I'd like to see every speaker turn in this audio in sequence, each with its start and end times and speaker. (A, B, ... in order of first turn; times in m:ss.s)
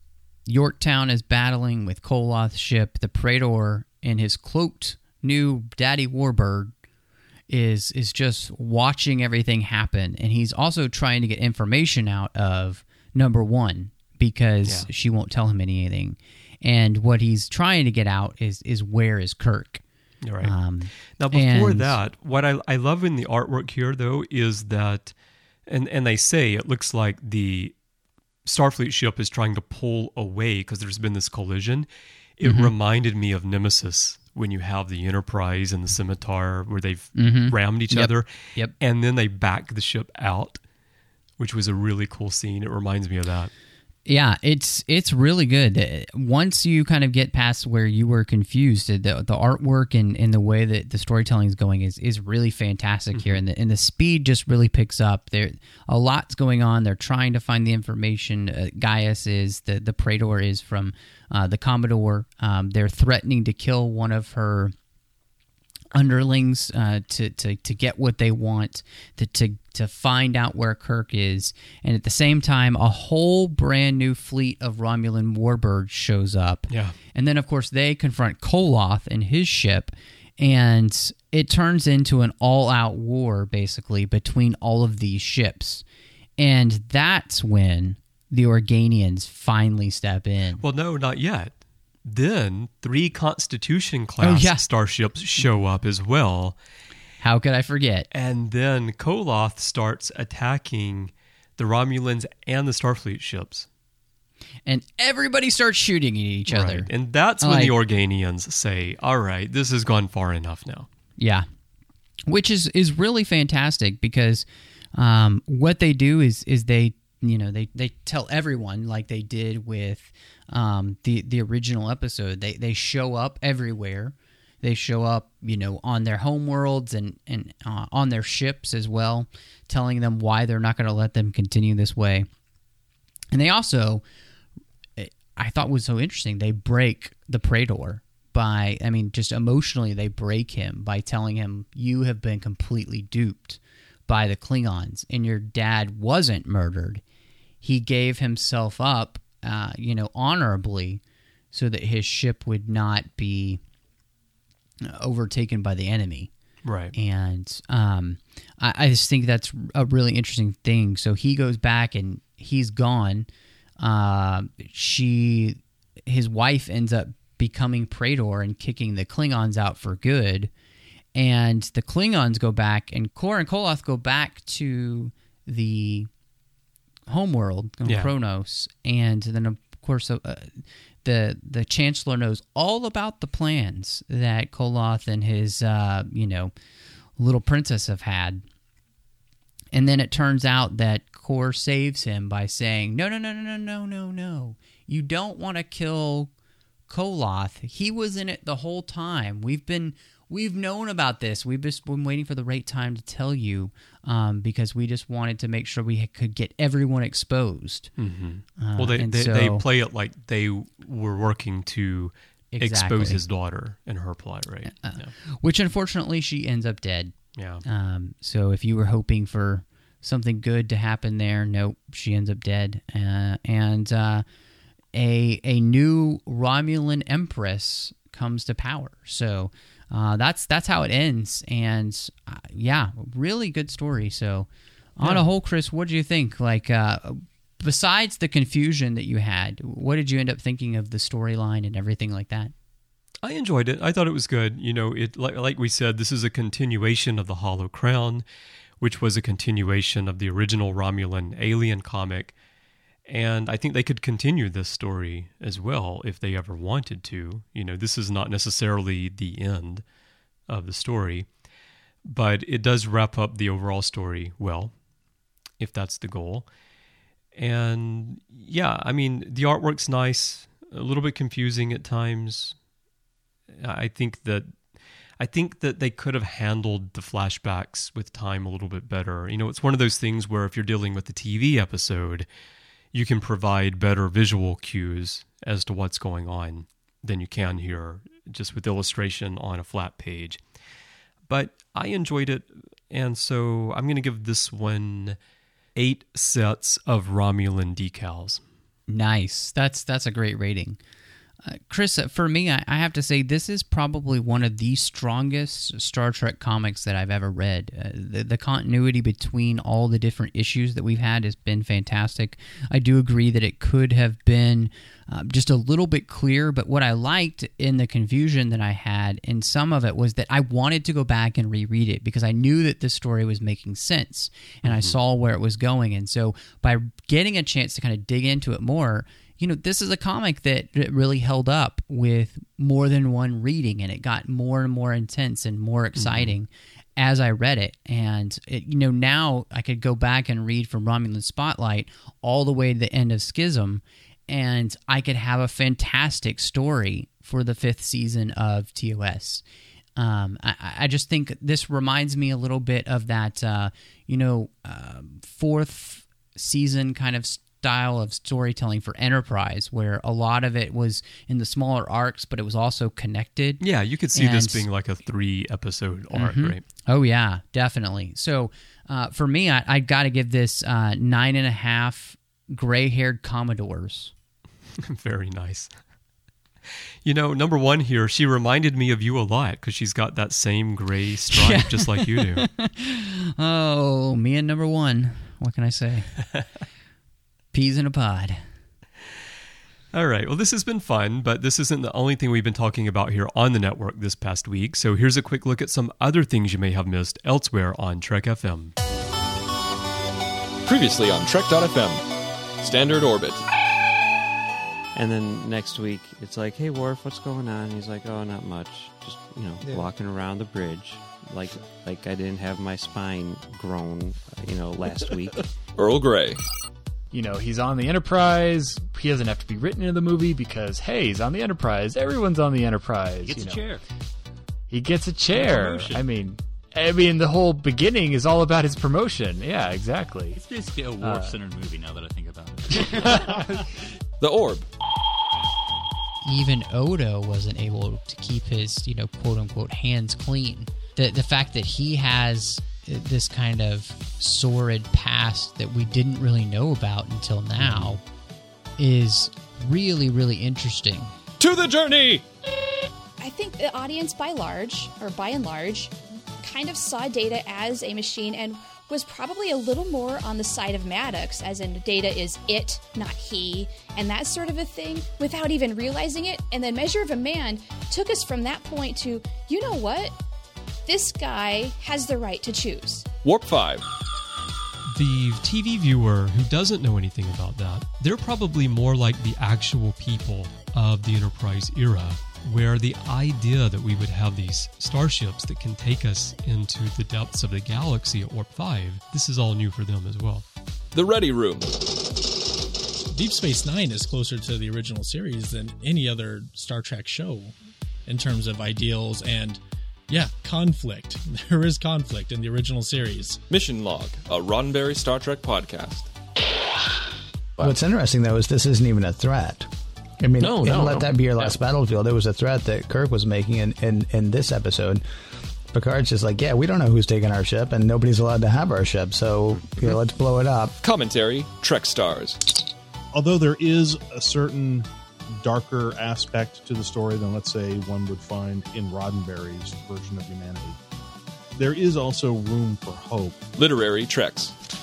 0:00.5-0:06.7 A
0:07.5-0:19.8 A
0:20.2-0:20.5 B
0:20.4-0:22.0 A
0:21.2-0:25.1 B
0:25.7-0:27.7 B
0:28.4-0:40.6 B
0:32.4-0:32.7 A
0:37.1-0:38.7 A
0:41.4-0:43.5 B
0:44.0-1:04.7 A
0:53.1-0:53.4 B
1:05.9-1:25.8 A
1:16.7-1:17.0 B
1:26.4-1:30.6 A
1:30.6-1:36.6 B
1:34.2-1:34.6 A
1:37.2-1:38.1 A
1:38.1-1:43.7 B
1:44.7-1:46.9 A
1:46.5-1:50.9 B
1:47.4-1:47.7 A
1:51.2-1:51.4 A
1:52.3-2:12.3 A
2:13.3-2:14.0 A
2:15.0-2:27.0 A
2:27.6-2:31.0 A
2:31.5-2:33.6 A
2:34.8-2:36.3 A
2:36.6-2:36.9 B
2:36.9-2:43.3 A
2:43.8-2:50.5 A
2:51.1-2:56.1 A
2:57.1-3:06.5 A
2:57.8-2:58.1 B
3:07.2-3:08.4 A
3:09.7-3:16.3 A
3:16.9-3:27.9 A
3:28.0-3:35.1 B
3:28.6-3:29.6 A
3:32.5-3:33.2 A
3:34.6-3:44.2 A
3:37.3-3:37.6 B
3:44.9-4:02.5 A
4:03.2-4:08.2 B
4:08.8-4:12.3 B
4:13.1-4:19.8 B
4:20.5-4:21.3 B
4:22.0-4:24.7 B
4:25.6-4:26.5 B
4:27.3-4:32.6 B
4:33.5-4:34.6 B
4:35.2-4:42.3 B
4:42.9-4:50.4 B
4:51.3-4:55.2 B
4:55.7-4:58.4 B
4:58.9-5:00.8 A
5:01.4-5:49.4 A
5:24.6-5:25.0 B
5:36.0-5:36.3 B
5:50.0-6:03.6 A
6:03.6-6:06.6 B
6:04.1-6:04.7 A
6:06.1-6:14.1 A
6:14.8-6:15.7 B
6:17.0-6:22.5 B
6:21.3-6:26.2 A
6:27.5-6:28.4 A
6:29.9-6:38.7 B
6:40.6-6:42.0 C
6:42.6-6:43.4 C
6:44.9-6:55.5 D
6:55.8-6:56.4 C
6:57.1-7:03.8 E
7:03.2-7:03.8 F
7:04.7-7:11.4 E
7:05.6-7:06.0 F
7:10.4-7:12.8 F
7:13.0-7:13.3 E
7:14.2-7:14.6 C
7:16.2-7:28.0 A
7:27.6-7:28.0 B
7:28.8-7:31.1 A
7:31.4-7:32.2 C
7:33.2-7:50.1 G
7:50.8-7:53.1 G
7:53.2-7:53.8 C
7:54.9-8:10.4 B
8:10.9-8:11.8 C
8:13.1-8:17.5 H
8:18.0-8:23.4 H
8:23.5-8:26.1 C
8:27.6-8:29.7 I
8:30.2-8:35.0 I
8:35.7-8:40.7 I
8:40.8-8:42.4 C
8:43.1-8:44.9 J
8:45.4-8:50.8 J
8:51.6-8:53.4 J
8:53.6-8:54.5 C